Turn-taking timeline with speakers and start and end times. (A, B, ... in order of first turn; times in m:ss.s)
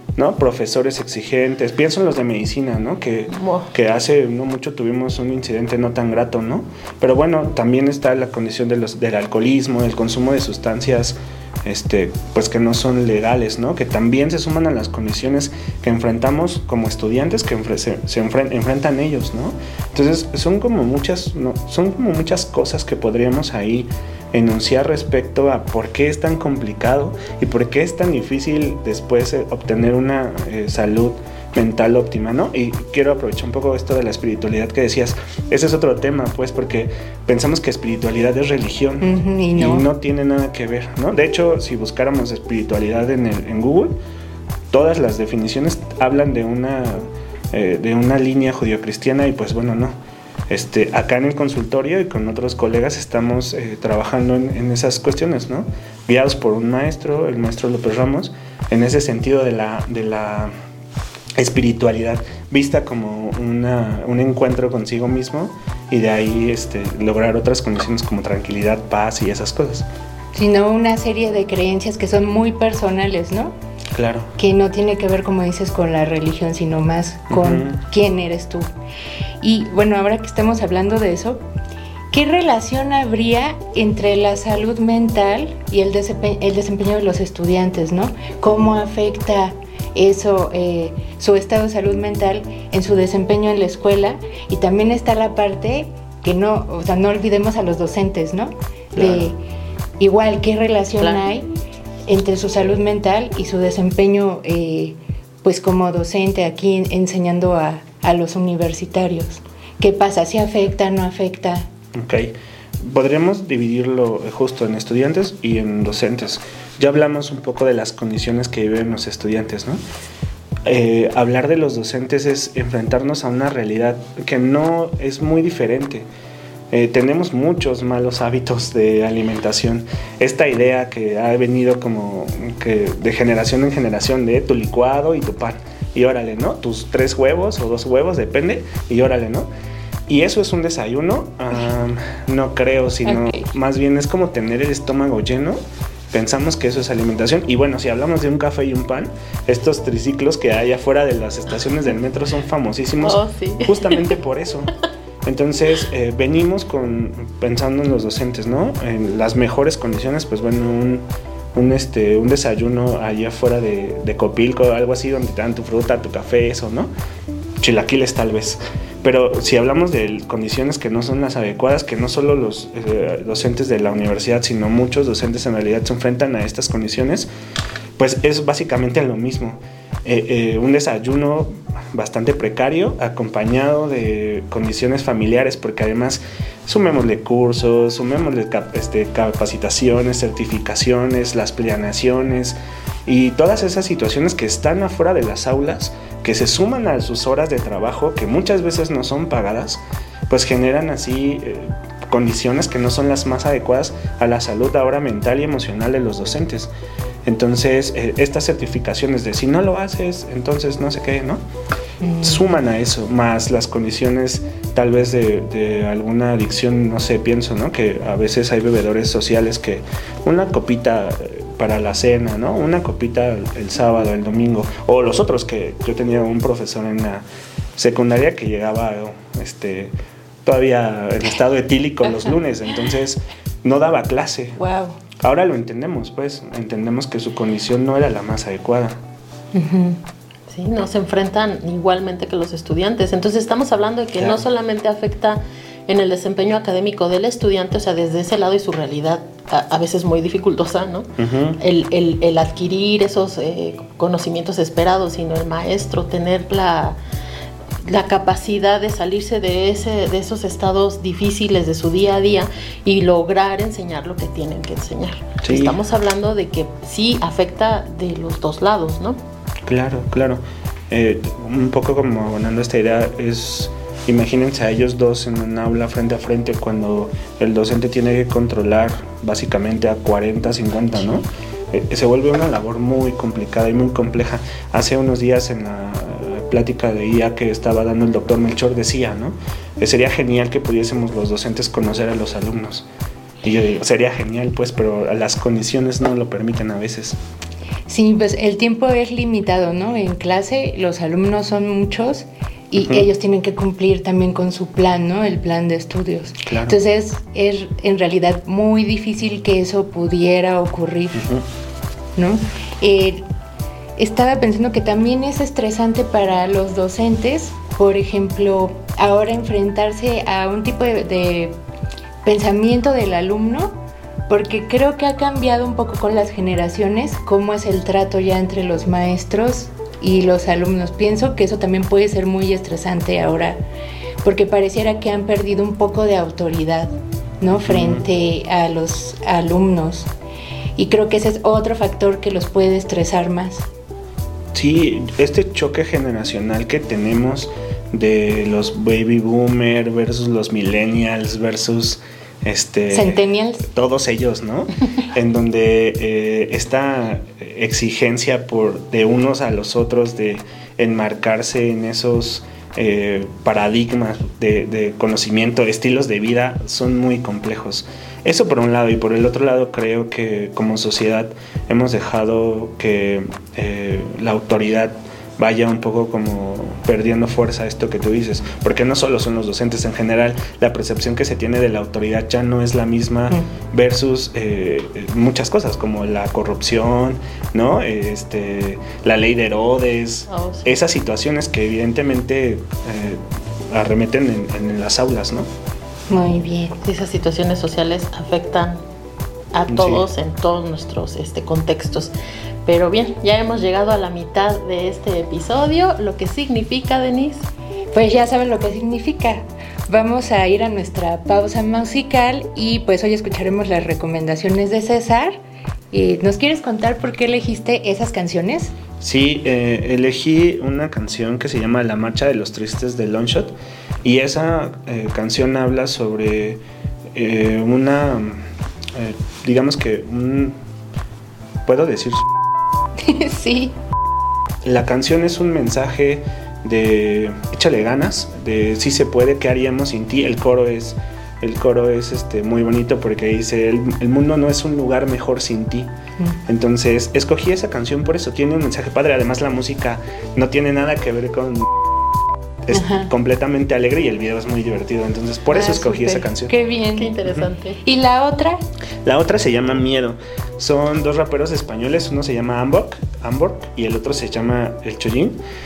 0:00.2-0:44.0 A
0:03.3-0:03.7 B
0:39.0-0:39.8 C
0:44.7-0:50.0 A
0:50.5-1:00.5 A
1:01.4-1:09.8 A
1:10.3-1:13.5 C
1:13.9-1:14.3 A
1:14.4-1:18.7 C
1:17.3-1:17.8 A
1:19.4-1:21.4 C
1:22.1-1:39.4 C
1:38.9-1:39.3 A
1:40.0-1:41.5 C
1:42.1-1:51.7 C
1:51.9-1:59.8 A
2:00.6-2:06.1 A
2:06.7-2:19.5 A
2:20.1-2:25.6 A
2:23.0-2:23.5 C
2:26.1-2:34.7 A
2:33.0-2:34.1 B
2:35.2-2:46.9 A
2:47.6-2:57.3 A
2:58.0-3:26.7 A
3:27.2-3:31.4 A
3:32.0-3:32.4 C
3:32.2-3:47.2 A
3:47.8-3:49.9 A
3:50.4-3:54.6 A
3:54.6-3:55.0 C
3:55.2-3:59.0 A
3:59.5-4:00.0 C
4:00.5-4:17.0 B
4:11.2-4:11.6 A
4:17.8-4:29.2 B
4:25.4-4:25.8 A
4:29.6-4:52.9 A
4:53.4-4:57.2 A
4:57.9-5:11.2 C
5:02.7-5:03.1 A
5:06.4-5:06.8 A
5:11.1-5:11.4 A
5:12.2-5:13.2 C
5:14.0-5:21.5 C
5:22.2-5:33.6 C
5:34.2-5:40.1 C
5:37.5-5:38.0 A
5:40.8-5:43.6 C
5:44.5-6:35.5 A
5:52.9-5:53.7 C
6:30.3-6:30.8 B
6:36.1-6:36.8 C
6:36.8-6:38.8 B
6:39.5-6:42.1 B
6:39.7-6:40.0 A
6:42.6-6:47.5 B
6:47.9-6:55.4 C
6:55.9-6:58.7 C
6:59.0-7:06.6 A
7:07.1-7:10.6 A
7:11.6-7:12.3 A
7:13.0-7:13.7 C
7:14.6-7:25.9 A
7:26.5-7:31.7 A
7:32.6-7:36.5 A
7:32.7-7:33.1 C
7:35.5-7:37.2 C
7:37.0-7:37.8 B
7:37.8-7:38.6 C
7:39.0-7:45.4 A